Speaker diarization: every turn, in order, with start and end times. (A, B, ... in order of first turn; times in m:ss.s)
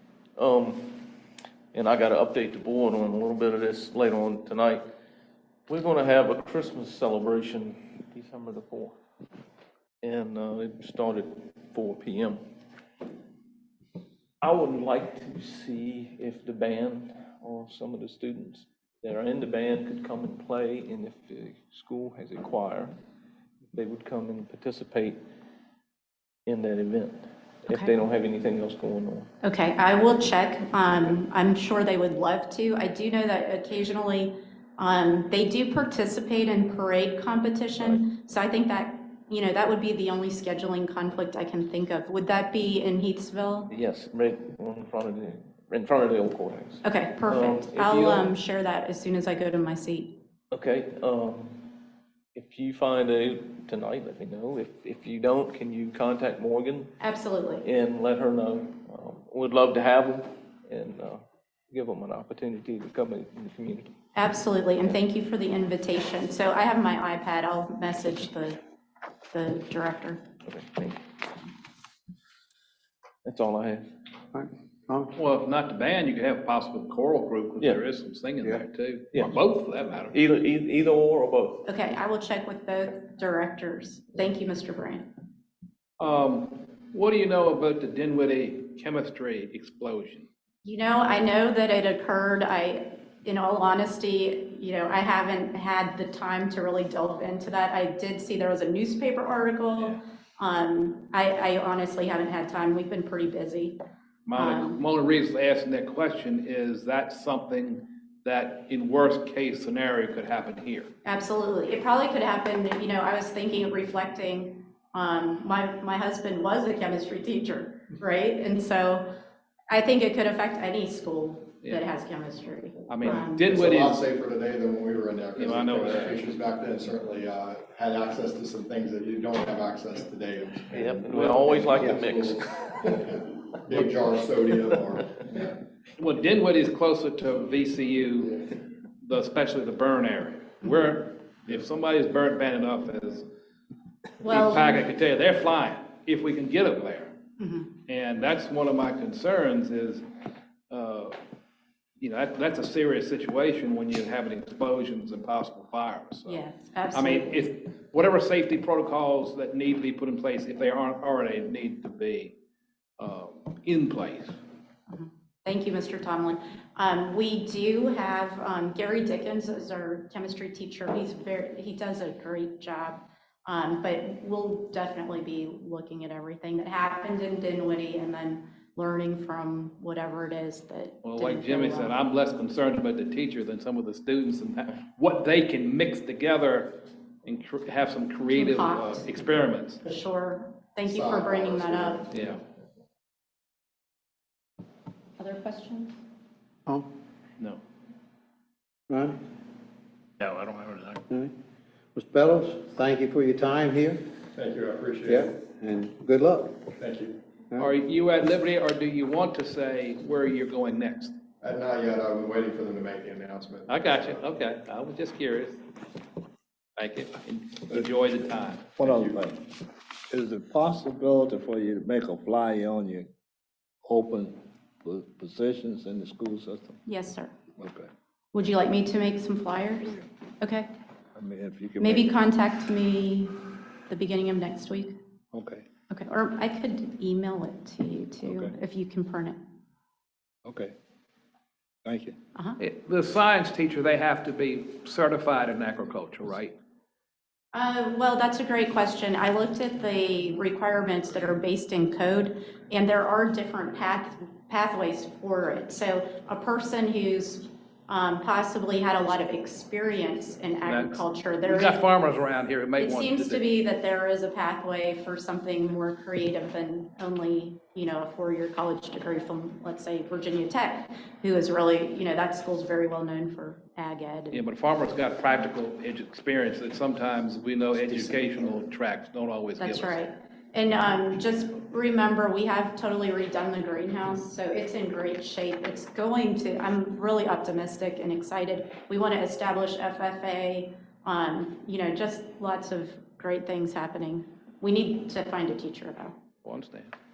0:00.4-0:01.0 A
0:01.7-0:04.8 A
0:05.7-0:09.0 A
0:10.0-0:12.4 A
0:14.4-0:22.9 A
0:23.7-0:25.2 A
0:26.4-0:29.3 A
0:27.7-0:27.9 B
0:29.4-0:43.7 B
0:37.8-0:38.0 A
0:43.7-0:48.3 A
0:46.8-0:50.2 B
0:50.5-0:51.7 A
0:52.3-0:57.0 A
0:57.0-0:57.6 B
0:57.6-1:03.9 A
1:04.1-1:08.6 B
1:09.3-1:10.3 B
1:10.4-1:11.0 A
1:13.2-1:13.8 A
1:14.3-1:15.1 C
1:15.2-1:20.2 D
1:20.1-1:21.6 A
1:21.6-1:25.1 B
1:26.0-1:30.3 D
1:30.6-1:43.8 B
1:44.3-1:50.9 D
1:44.3-1:44.9 B
1:51.0-1:59.2 B
1:59.7-2:03.5 B
2:02.9-2:04.0 D
2:03.1-2:15.6 E
2:05.4-2:06.2 D
2:10.7-2:13.0 A
2:16.0-2:18.5 D
2:19.0-2:23.3 D
2:24.2-2:24.8 B
2:24.2-2:27.1 D
2:27.4-2:27.8 B
2:27.8-2:30.0 D
2:30.7-2:31.2 D
2:32.0-2:36.4 D
2:36.2-2:37.4 B
2:36.9-2:42.3 D
2:43.0-2:44.4 D
2:44.9-3:02.0 B
3:01.0-3:09.8 D
3:08.2-3:09.1 B
3:09.8-3:12.0 B
3:10.8-3:12.3 E
3:12.1-3:12.4 D
3:15.2-3:16.0 B
3:18.9-3:19.2 C
3:20.2-3:21.0 D
3:21.9-3:24.0 C
3:24.3-3:25.4 E
3:25.1-3:26.6 C
3:26.8-3:27.2 E
3:27.6-3:31.2 D
3:31.4-3:34.2 E
3:33.7-3:35.6 D
3:36.8-3:38.7 D
3:38.8-3:39.4 F
3:38.8-3:39.2 E
3:40.1-3:43.1 F
3:43.8-3:46.8 F
3:46.8-3:47.4 B
3:47.6-3:47.9 F
3:48.3-3:50.7 B
3:51.2-3:52.1 F
3:51.8-3:55.0 B
3:55.3-3:55.6 F
3:55.9-3:59.4 B
3:58.2-3:58.5 F
4:00.4-4:00.7 F
4:01.8-4:02.2 F
4:02.3-4:02.6 B
4:02.6-4:06.6 D
4:07.5-4:21.8 B
4:20.6-4:23.4 D
4:22.8-4:34.4 B
4:34.3-4:40.0 D
4:39.6-4:56.2 B
4:56.4-4:56.9 D